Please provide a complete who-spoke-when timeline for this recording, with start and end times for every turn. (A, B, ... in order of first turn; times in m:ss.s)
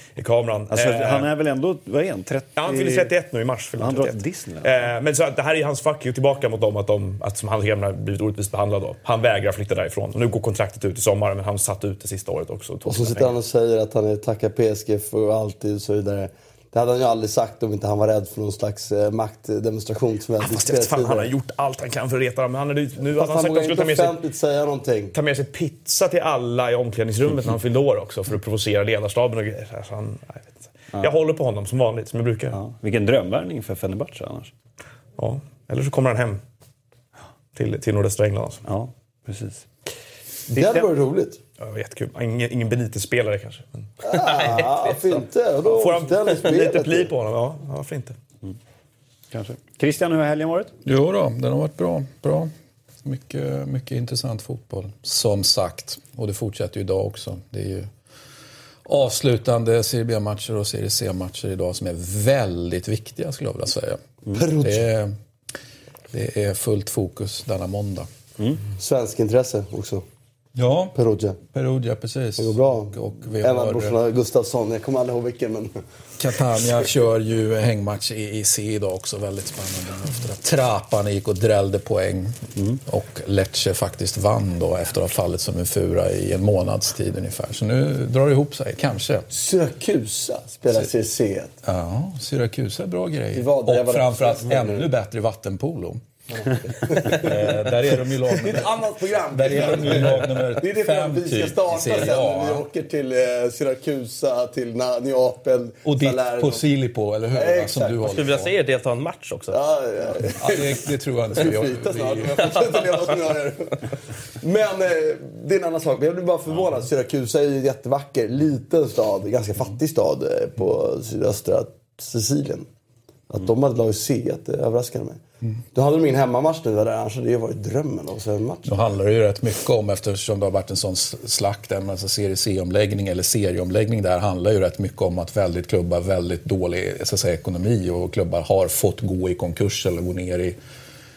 0:00.2-0:01.3 A
0:00.7-0:03.1 B
0:02.6-0:13.3 A
0:03.8-0:04.7 B
0:12.8-0:21.3 C
0:20.4-0:24.2 A
0:23.1-0:25.1 C
0:25.1-0:32.6 A
0:32.5-0:34.5 B
0:35.2-0:36.4 A
0:37.6-0:38.6 A
0:38.6-0:39.7 B
0:40.5-0:41.4 C
0:40.5-0:40.9 B
0:41.6-0:43.8 A
0:44.0-0:47.1 C
0:44.1-0:45.2 D
0:45.7-0:48.2 A
0:49.3-0:50.7 B
0:50.8-0:52.5 E
0:53.0-0:57.9 E
0:58.8-1:04.0 E
1:04.3-1:04.9 C
1:04.6-1:05.2 E
1:06.1-1:08.1 E
1:08.8-1:10.0 C
1:10.5-1:11.0 E
1:10.9-1:11.4 C
1:11.5-1:14.0 E
1:12.4-1:15.8 C
1:16.2-1:29.3 E
1:29.3-1:31.6 C
1:31.6-1:36.0 E
1:33.3-1:34.9 C
1:36.3-1:46.7 C
1:37.0-1:42.6 E
1:45.8-1:48.5 E
1:47.3-1:48.1 C
1:48.0-1:49.6 D
1:49.5-2:02.7 C
1:50.4-1:52.6 E
2:03.3-2:05.2 C
2:05.7-2:08.8 C
2:08.6-2:20.6 E